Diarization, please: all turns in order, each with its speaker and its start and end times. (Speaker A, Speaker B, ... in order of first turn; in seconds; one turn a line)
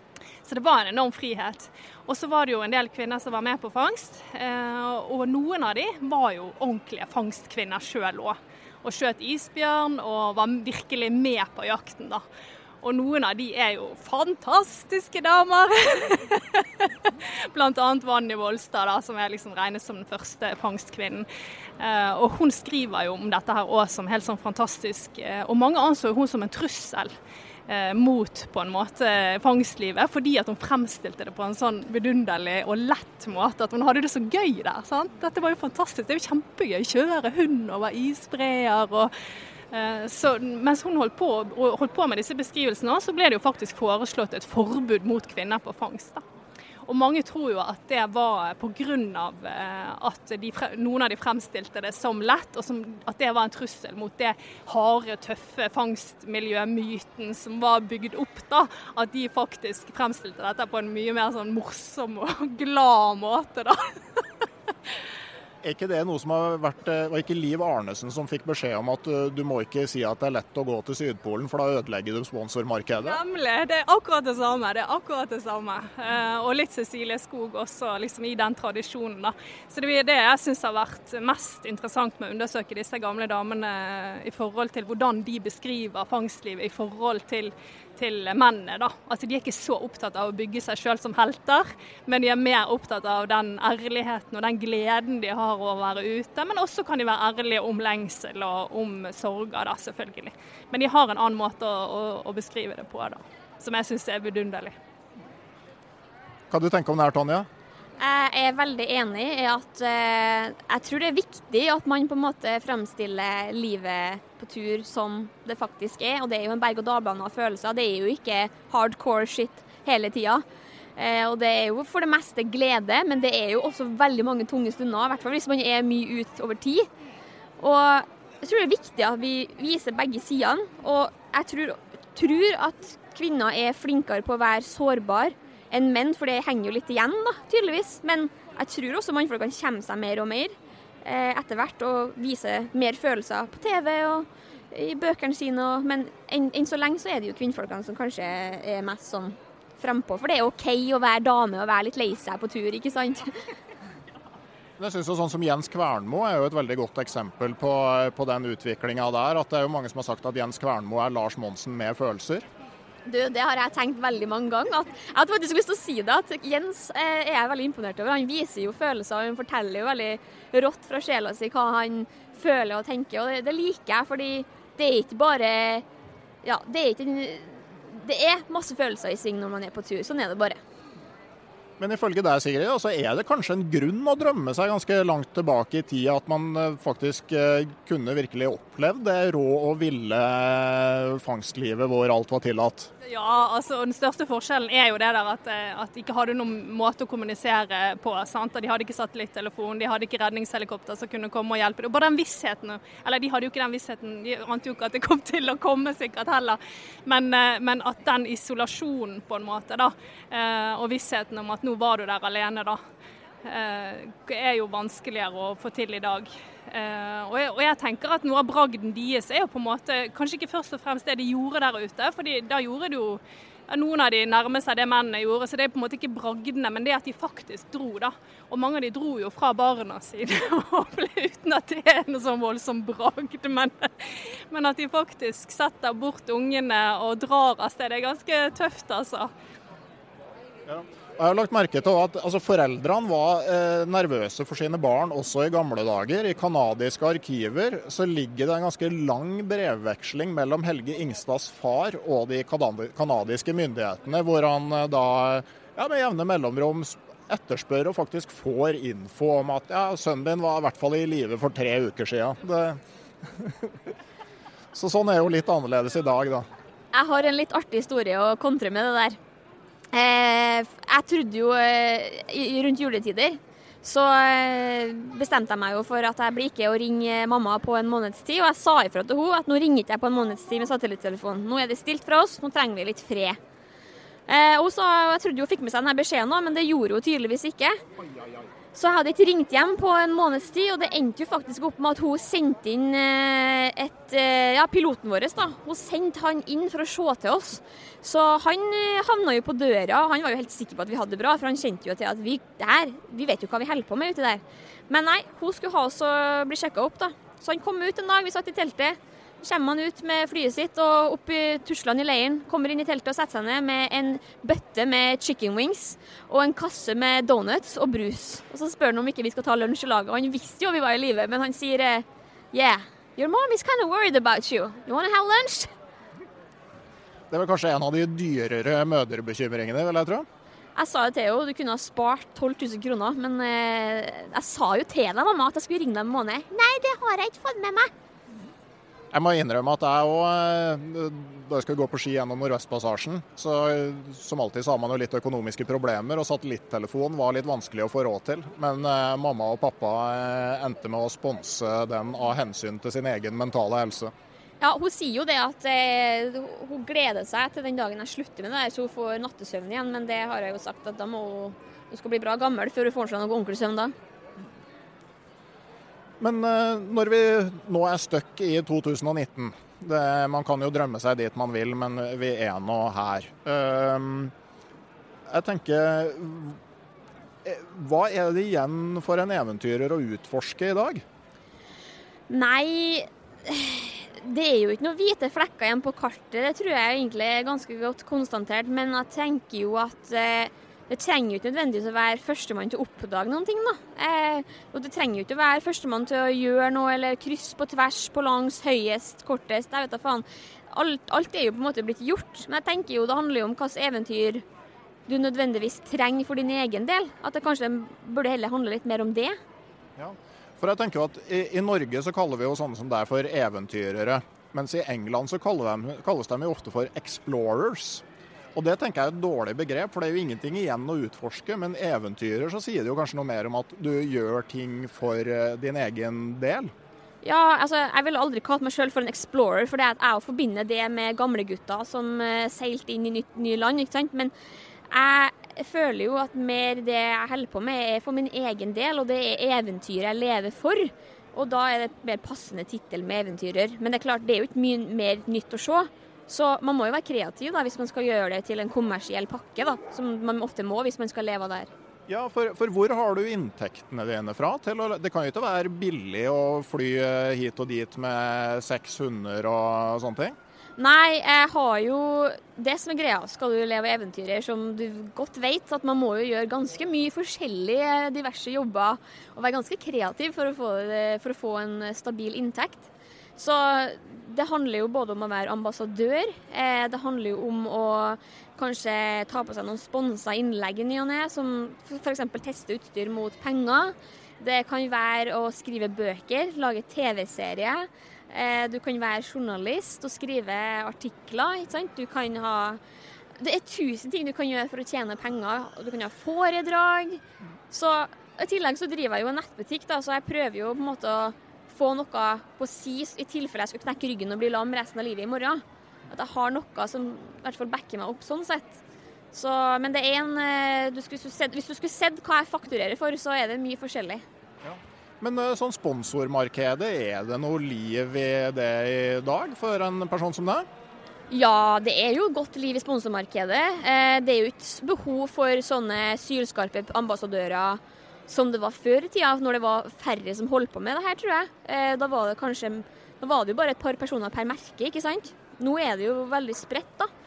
Speaker A: 0.4-12.2
Speaker A: 12.8-21.3
Speaker A: 21.8-27.1
Speaker A: 27.7-39.1
Speaker A: 39.7-46.2
Speaker A: 46.9-64.2
Speaker B: 65.6-73.2
Speaker A: 73.0-104.7
Speaker B: 106.5-107.5
Speaker C: 108.0-120.4
Speaker C: 121.0-126.9
Speaker C: 127.6-153.3
Speaker B: 154.8-162.5
Speaker C: 163.1-175.8
Speaker C: 176.4-180.6
Speaker B: 181.8-192.9
Speaker A: 193.0-212.8
Speaker A: 213.4-239.3
Speaker B: 240.7-263.9
Speaker B: 264.7-266.5
Speaker C: 266.9-269.2
Speaker C: 269.9-283.4
Speaker C: 284.3-287.8
Speaker C: 288.8-325.7
Speaker B: 327.3-330.3
Speaker C: 330.8-337.9
Speaker B: 339.1-354.1
Speaker C: 354.6-363.9
Speaker B: 366.2-374.3
Speaker B: 375.3-376.6
Speaker B: 377.4-381.1
Speaker C: 382.3-404.4
Speaker C: 405.1-409.4
Speaker B: 410.0-418.0
Speaker B: 418.6-426.7
Speaker C: 427.2-434.3
Speaker C: 434.9-451.7
Speaker B: 452.1-460.4
Speaker C: 460.8-492.8
Speaker C: 493.4-508.8
Speaker C: 509.3-514.2
Speaker B: 514.6-520.7
Speaker C: 521.3-537.1